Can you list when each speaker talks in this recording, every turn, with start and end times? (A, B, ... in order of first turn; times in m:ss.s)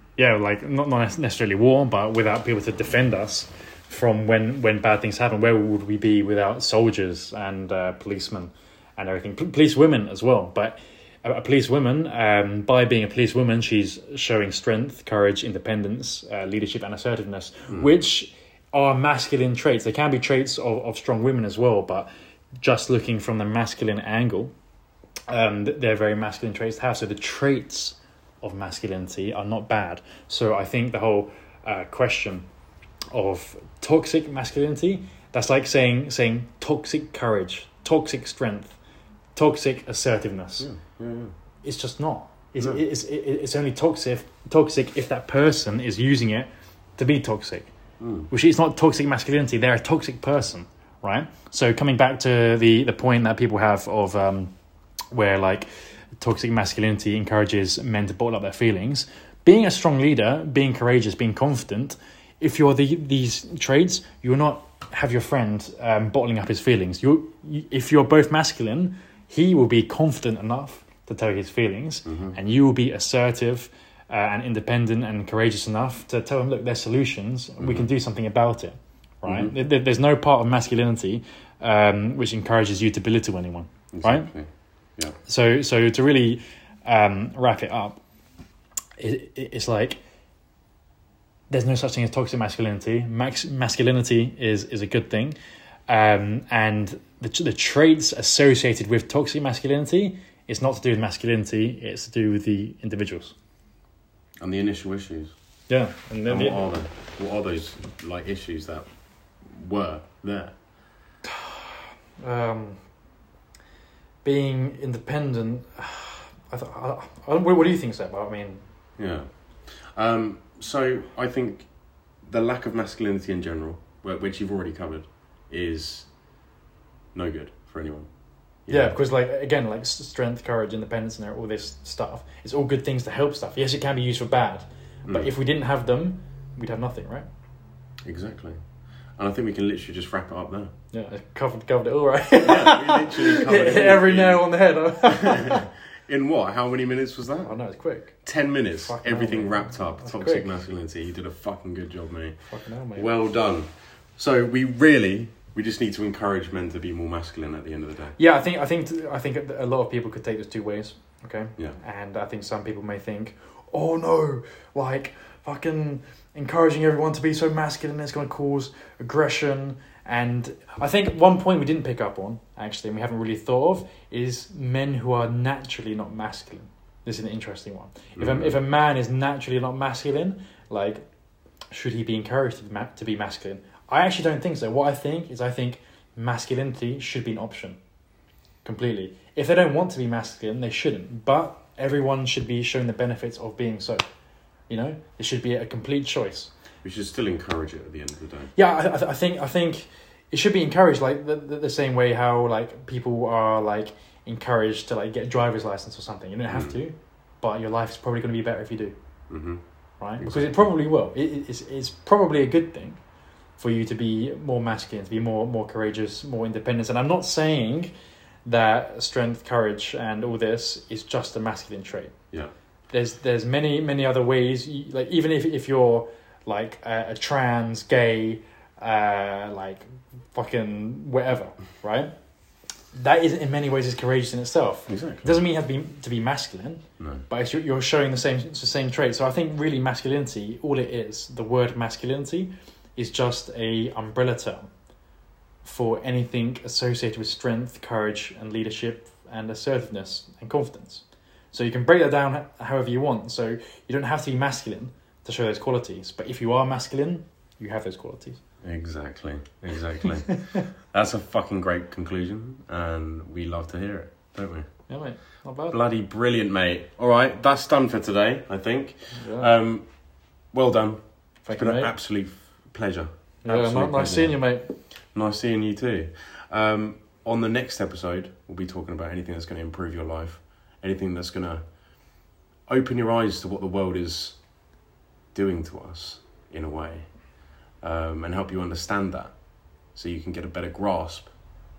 0:00.2-0:22.1 A
0:22.6-0:24.5 A
0:25.3-0:32.5 A
0:33.1-0:38.8 A
0:39.4-0:40.7 A
0:40.6-0:41.3 B
0:41.6-0:47.7 A
0:48.0-0:48.3 B
0:48.3-0:54.5 A
0:55.1-1:24.3 A
1:12.0-1:12.4 B
1:17.6-1:17.9 B
1:19.3-1:19.5 B
1:23.9-1:25.2 B
1:25.2-1:28.0 A
1:29.0-1:30.0 A
1:31.5-1:35.4 A
1:35.9-1:43.3 A
1:44.4-1:45.3 B
1:45.7-1:46.7 A
1:46.3-1:50.6 B
1:51.3-1:51.7 A
1:52.2-1:52.8 A
1:54.2-1:58.6 A
1:59.0-2:06.1 B
2:07.1-2:09.0 B
2:08.7-2:17.3 A
2:18.0-2:18.6 B
2:19.2-2:20.7 B
2:20.9-2:25.7 A
2:22.4-2:38.2 B
2:27.4-2:30.5 A
2:32.5-2:33.1 A
2:38.2-3:01.1 A
2:58.2-2:58.6 B
3:01.7-3:07.8 A
3:08.6-3:14.0 A
3:14.7-3:16.5 A
3:16.8-3:18.5 B
3:18.6-3:29.0 A
3:26.5-3:26.8 B
3:29.3-3:30.7 B
3:30.0-3:33.0 A
3:33.6-3:37.9 A
3:38.4-3:42.3 A
3:42.9-3:52.1 A
3:52.9-4:04.7 A
3:54.9-3:55.4 B
3:57.0-3:57.2 B
4:05.6-4:18.4 A
4:18.6-4:25.0 B
4:24.9-4:25.8 A
4:25.7-4:44.6 B
4:29.1-4:29.5 A
4:31.4-4:31.9 A
4:33.4-4:34.7 A
4:45.3-4:51.6 B